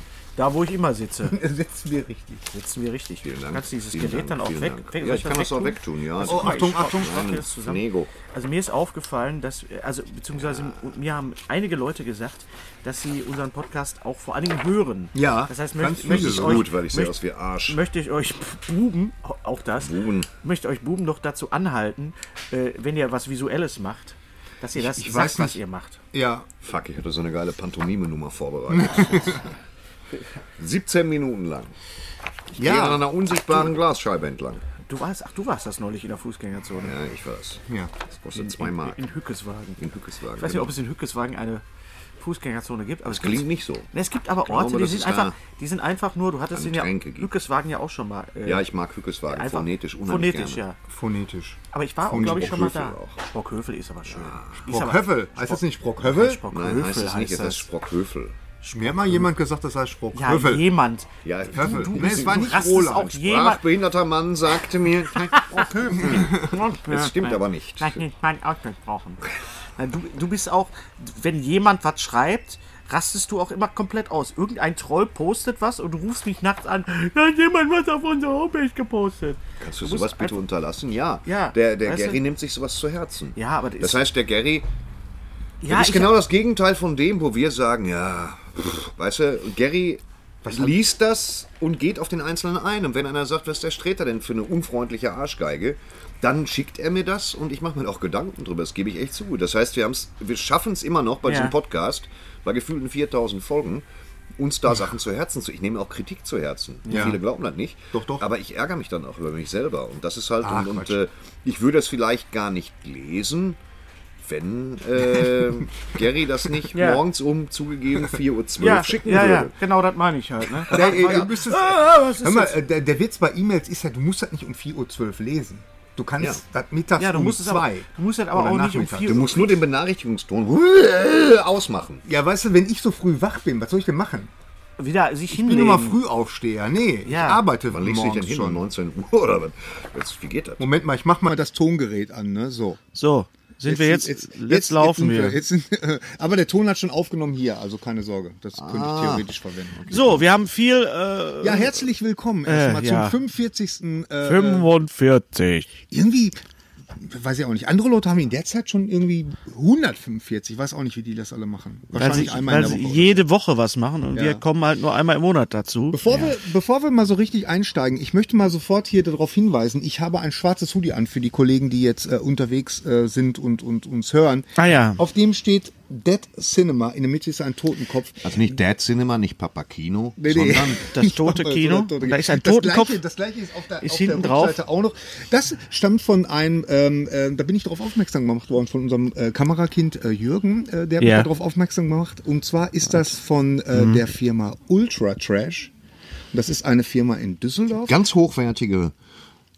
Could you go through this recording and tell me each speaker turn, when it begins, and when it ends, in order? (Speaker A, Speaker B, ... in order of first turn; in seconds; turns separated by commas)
Speaker A: 0.4-1.4, Speaker B: 1.2-2.4, Speaker A: 2.5-26.0, Speaker C: 3.2-8.1, Speaker B: 6.2-7.2, Speaker C: 10.5-10.7, Speaker B: 15.1-16.7, Speaker C: 16.0-17.8, Speaker C: 19.8-20.3, Speaker B: 24.8-25.6, Speaker B: 26.1-26.5, Speaker C: 26.6-29.5, Speaker B: 28.7-29.4, Speaker C: 30.6-31.8, Speaker C: 32.6-34.6, Speaker B: 32.6-33.0, Speaker A: 34.9-36.9, Speaker C: 36.8-39.0, Speaker A: 38.3-41.6, Speaker C: 39.8-40.7, Speaker A: 42.2-48.7, Speaker C: 43.1-43.9, Speaker C: 44.4-45.4, Speaker C: 46.5-47.3, Speaker C: 48.4-50.6, Speaker A: 49.3-50.8, Speaker B: 50.9-52.7, Speaker A: 51.7-57.7, Speaker C: 52.1-53.2, Speaker C: 54.1-54.6, Speaker B: 54.7-56.4, Speaker C: 56.5-58.4, Speaker B: 58.6-60.6, Speaker A: 60.1-63.6, Speaker C: 61.2-68.1, Speaker B: 61.5-63.1, Speaker A: 65.2-80.4, Speaker B: 65.8-66.5, Speaker C: 79.6-84.7, Speaker A: 81.3-82.2, Speaker A: 83.4-84.0, Speaker A: 85.6-86.2, Speaker C: 85.7-103.8, Speaker A: 90.4-90.8, Speaker A: 101.3-101.5, Speaker C: 104.4-113.6, Speaker B: 106.9-107.2, Speaker B: 107.9-108.3, Speaker B: 110.4-111.0, Speaker C: 114.2-119.5, Speaker A: 116.7-117.0, Speaker A: 118.6-122.6, Speaker B: 120.7-129.2, Speaker C: 120.8-121.2, Speaker A: 127.0-129.5, Speaker C: 129.0-132.0, Speaker B: 132.1-134.3, Speaker A: 134.8-136.0, Speaker B: 135.3-138.6, Speaker A: 137.1-137.4, Speaker C: 137.7-140.7, Speaker B: 140.6-142.8, Speaker A: 142.9-145.4, Speaker B: 143.7-149.8, Speaker C: 148.6-150.3, Speaker A: 149.9-151.8, Speaker B: 151.4-154.7, Speaker A: 152.5-153.2, Speaker A: 154.2-155.7, Speaker B: 155.9-156.4, Speaker B: 157.0-163.2, Speaker A: 161.9-166.0, Speaker B: 164.2-164.4, Speaker B: 165.9-178.5, Speaker A: 174.6-175.0, Speaker C: 178.2-180.9, Speaker B: 180.2-195.7, Speaker A: 180.9-183.0, Speaker A: 183.8-184.6, Speaker A: 191.0-191.3, Speaker A: 193.8-194.0, Speaker B: 196.3-198.0, Speaker C: 197.8-198.9